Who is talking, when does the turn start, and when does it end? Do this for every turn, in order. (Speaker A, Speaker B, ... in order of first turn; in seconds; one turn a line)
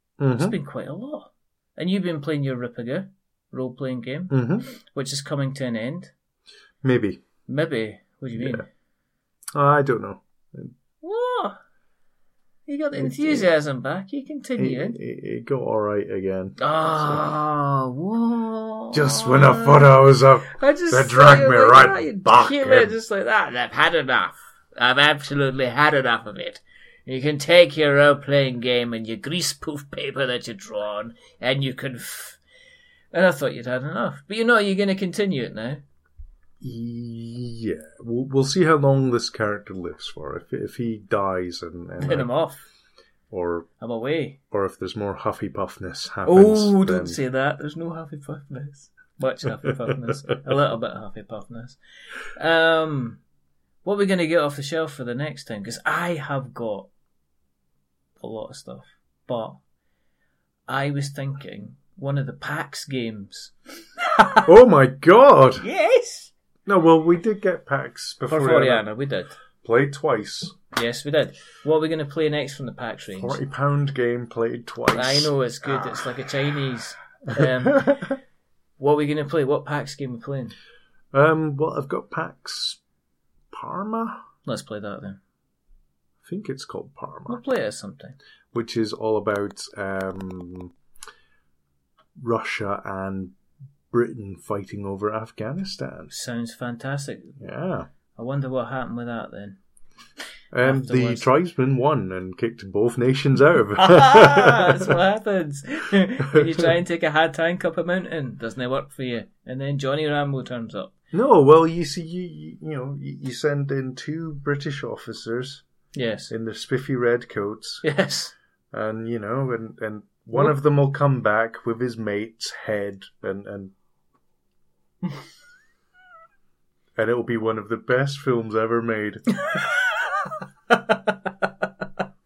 Speaker A: 0.2-0.6
Speaker B: 0.3-6.1
Speaker A: 4.3-4.7
Speaker A: 6.8-7.2
Speaker B: 7.5-8.7
Speaker A: 8.3-8.6
Speaker A: 9.5-10.8
Speaker B: 11.0-11.6
Speaker B: 12.7-15.0
Speaker A: 12.9-13.5
Speaker A: 14.6-17.3
Speaker B: 16.6-32.4
Speaker A: 18.9-23.0
Speaker B: 33.1-35.8
Speaker A: 36.6-42.3
Speaker B: 42.0-42.7
Speaker A: 43.3-43.7
Speaker B: 43.8-44.4
Speaker A: 44.5-47.2
Speaker B: 46.2-51.8
Speaker B: 52.3-53.2
Speaker B: 53.8-56.9
Speaker B: 58.2-59.6
Speaker B: 60.7-64.5
Speaker A: 64.5-65.7
Speaker B: 65.6-66.3
Speaker A: 66.7-68.9
Speaker B: 68.3-69.4
Speaker A: 69.6-70.6
Speaker B: 70.7-73.4
Speaker A: 73.2-76.1
Speaker B: 74.9-78.1
Speaker A: 77.3-78.1
Speaker B: 78.8-80.5
Speaker A: 81.1-82.8
Speaker A: 83.5-84.2
Speaker B: 84.5-85.2
Speaker A: 86.2-87.4
Speaker B: 87.3-88.2
Speaker A: 88.5-90.7
Speaker A: 92.2-93.3
Speaker A: 93.9-96.1
Speaker B: 96.1-97.4
Speaker A: 97.4-97.9
Speaker B: 98.2-99.6
Speaker A: 100.5-105.0
Speaker B: 100.6-101.3
Speaker B: 103.8-110.9
Speaker A: 106.3-106.7
Speaker A: 111.1-115.6
Speaker B: 115.9-116.3
Speaker A: 116.3-117.8
Speaker B: 117.8-118.3
Speaker A: 118.7-123.7
Speaker A: 127.0-129.3
Speaker B: 129.3-131.7